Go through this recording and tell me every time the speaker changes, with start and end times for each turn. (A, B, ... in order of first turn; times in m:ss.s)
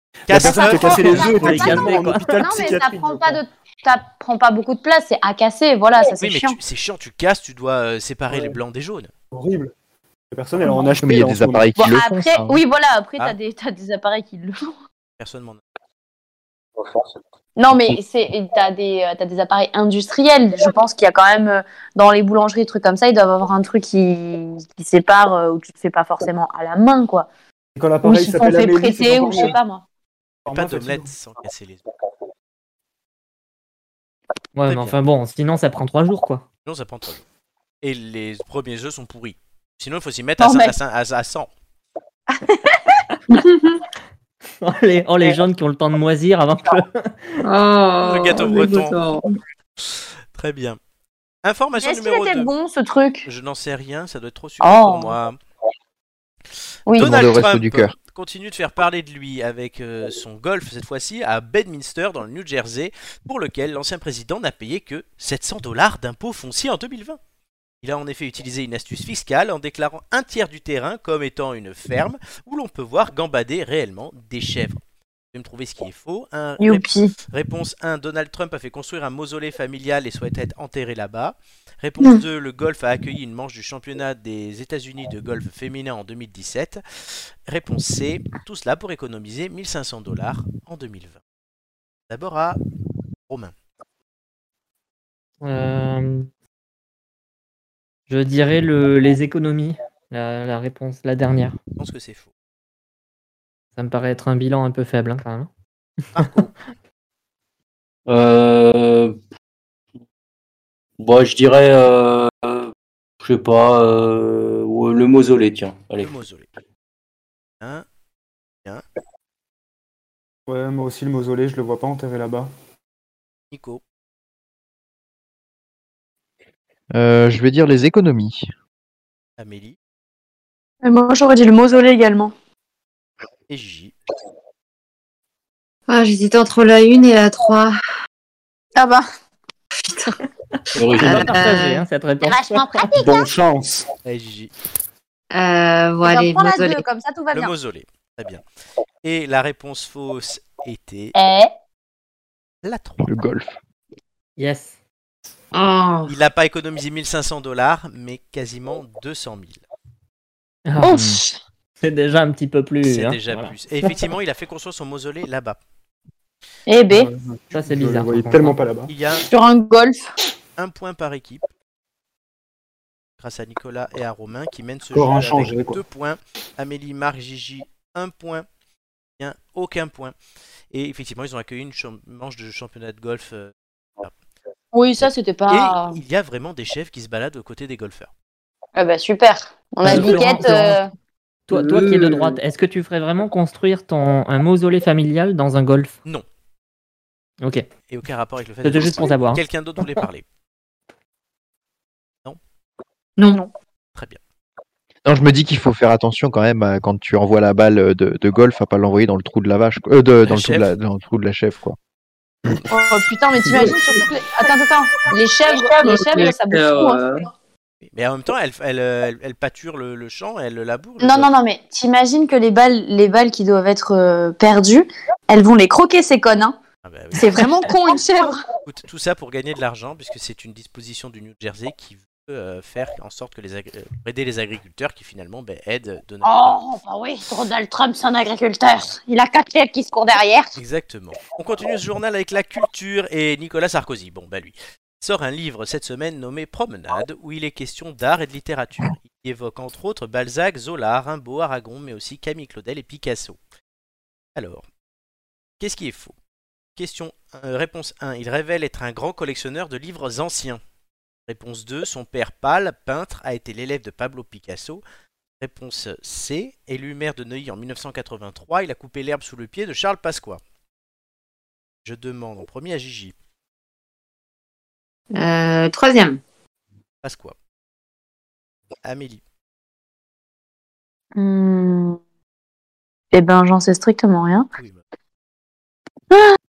0:00.3-0:01.8 A
0:00.3-0:03.4 B
0:00.3-0:06.6 C
0:00.9-0:02.3 D
0:06.2-0:09.1 A
0:08.3-0:08.6 B
0:09.3-0:09.7 B
0:10.3-0:11.8 B
0:11.0-0:12.6 E
0:11.8-0:14.7 C
0:15.2-0:15.6 A
0:17.6-0:27.3 C
0:27.8-0:29.6 B
0:28.0-0:29.8 C
0:30.5-0:31.1 B
0:30.5-0:31.8 A
0:34.6-0:36.4 D
0:34.7-0:35.0 A
0:36.7-0:37.2 A
0:37.8-0:41.5 A
0:40.4-0:40.8 C
0:44.6-0:47.3 D
0:47.4-0:49.2 F
0:48.0-0:49.0 A
0:49.9-0:50.8 A
0:51.4-0:52.5 A
0:51.8-0:53.3 C
0:53.3-0:55.4 A
0:54.6-0:55.2 C
0:56.9-0:57.1 C
0:57.0-1:07.2 A
0:57.0-0:58.0 E
1:07.8-1:14.8 A
1:15.3-1:26.8 A
1:16.6-1:17.2 C
1:27.5-1:31.2 A
1:32.1-1:32.6 A
1:33.3-1:33.5 A
1:35.4-1:36.3 D
1:38.1-1:41.6 D
1:41.8-1:42.3 A
1:43.8-1:45.5 D
1:46.1-1:46.5 A
1:48.1-1:49.2 G
1:51.0-1:56.1 G
1:56.0-1:56.5 A
1:57.6-1:57.9 A
2:00.5-2:02.5 B
2:03.5-2:03.8 A
2:06.9-2:08.5 E
2:09.4-2:09.8 A
2:10.8-2:12.3 C
2:13.5-2:14.0 A
2:15.9-2:17.8 F
2:18.8-2:19.1 C
2:20.8-2:21.3 G
2:21.0-2:22.9 D
2:21.2-2:21.8 F
2:22.2-2:23.3 C
2:23.0-2:23.9 B
2:24.0-2:24.5 A
2:25.3-2:26.8 F
2:26.0-2:27.5 C
2:27.3-2:28.4 A
2:29.0-2:31.2 A
2:31.2-2:31.5 C
2:32.6-2:33.1 A
2:33.0-2:33.5 E
2:34.4-2:34.8 D
2:35.5-2:36.1 F
2:36.1-2:39.6 A
2:40.7-2:41.2 D
2:40.8-2:41.4 C
2:41.8-2:43.6 D
2:42.8-2:45.6 A
2:46.7-2:47.1 C
2:46.9-2:48.9 B
2:47.5-2:48.6 D
2:48.9-2:49.3 A
2:49.2-2:50.0 C
2:50.6-2:51.4 A
2:53.2-2:58.5 A
2:54.9-2:55.8 B
2:59.2-3:00.2 A
3:00.7-3:04.1 A
3:04.7-3:06.0 C
3:05.0-3:08.1 A
3:08.8-3:10.9 C
3:09.8-3:10.8 D
3:11.5-3:16.0 D
3:11.5-3:12.3 G
3:17.9-3:20.2 A
3:18.6-3:19.4 D
3:23.2-3:23.5 F
3:25.0-3:31.8 E
3:30.2-3:30.7 A
3:32.7-3:37.0 C
3:35.5-3:37.3 F
3:37.9-3:41.3 A
3:41.0-3:46.6 C
3:46.8-3:47.5 A
3:47.2-3:48.4 C
3:48.6-3:56.6 A
3:56.2-4:00.6 C
4:00.6-4:13.4 A
4:14.4-4:14.7 A
4:15.6-4:16.2 A
4:16.8-4:20.6 A
4:21.3-4:24.8 A
4:25.4-4:30.4 A
4:31.8-4:33.2 A
4:35.1-4:36.2 F
4:37.0-4:37.4 A
4:38.8-4:39.2 A
4:41.2-4:42.0 C
4:43.1-4:44.5 C
4:44.6-4:44.8 A
4:46.1-4:46.4 C